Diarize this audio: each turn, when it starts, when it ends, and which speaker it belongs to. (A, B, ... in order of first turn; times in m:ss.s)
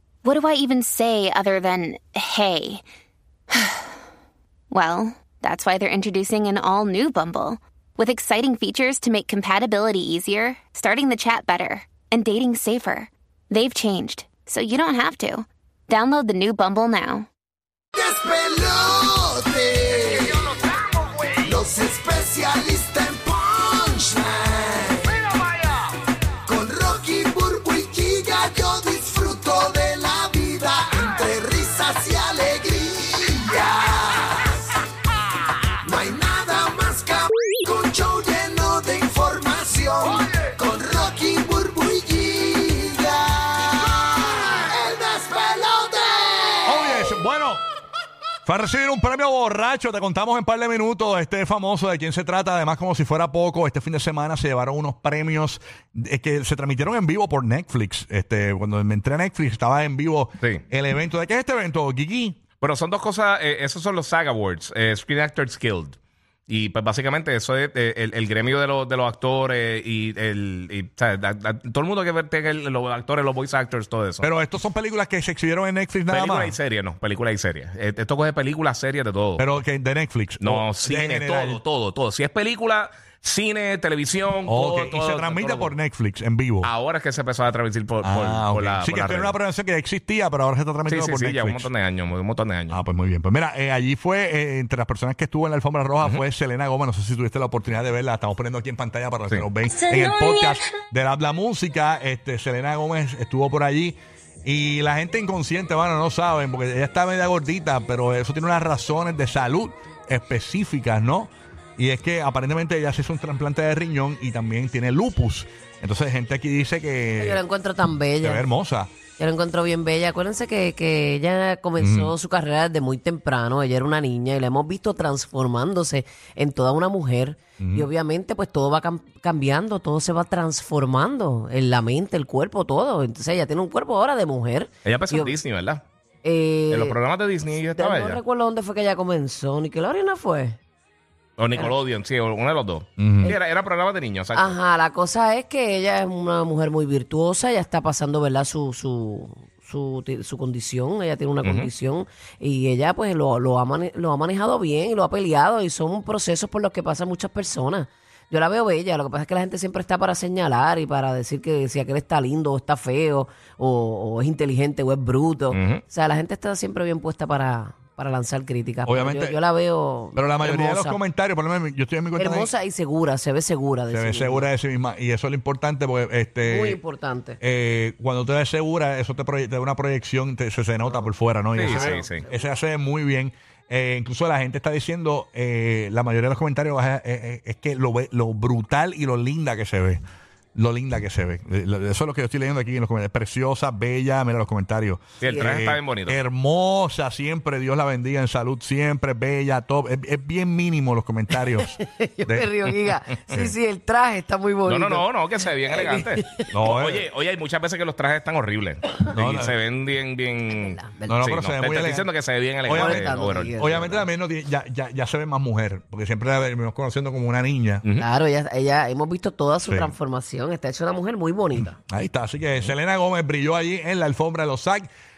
0:00.2-0:02.8 A
0:03.5-0:03.9 A
0:04.7-0:17.3 A
0:18.0-0:20.6 B
0:21.2-0:25.7 B
0:26.4-0:34.7 B
0:35.8-0:46.6 B
0:46.6-0:47.6 C
0:48.4-1:02.4 C
1:02.6-1:06.0 D
1:06.5-1:14.2 D
1:14.2-1:16.6 C
1:16.1-1:19.5 D
1:19.4-1:21.6 C
1:20.4-1:25.7 D
1:24.4-1:26.7 C
1:26.6-1:29.4 D
1:28.0-1:31.7 C
1:30.9-1:32.8 D
1:32.7-1:57.4 C
1:57.2-1:58.4 E
1:58.2-1:58.9 C
1:59.2-2:15.4 E
2:01.8-2:02.1 C
2:07.6-2:07.9 C
2:14.8-2:15.8 D
2:16.2-2:17.0 E
2:16.7-2:18.2 D
2:17.8-2:20.6 E
2:21.4-2:24.6 D
2:23.0-2:23.4 C
2:24.3-2:51.0 E
2:31.4-2:31.7 D
2:45.5-2:45.8 D
2:48.9-2:49.4 C
2:50.2-2:52.5 C
2:52.2-2:54.5 E
2:53.9-2:56.8 C
2:56.5-2:57.4 E
2:57.4-3:10.0 C
3:01.6-3:02.5 E
3:01.6-3:02.2 D
3:10.6-3:21.7 C
3:15.2-3:16.2 D
3:15.2-3:15.5 E
3:21.6-3:25.1 E
3:22.2-3:22.5 C
3:24.7-3:34.0 D
3:25.7-3:26.5 E
3:26.5-3:27.0 C
3:29.1-3:29.6 C
3:30.6-3:31.2 E
3:31.1-3:32.1 C
3:32.6-3:37.8 C
3:32.7-3:33.9 E
3:38.0-3:41.8 E
3:39.6-3:39.9 C
3:41.9-3:44.9 C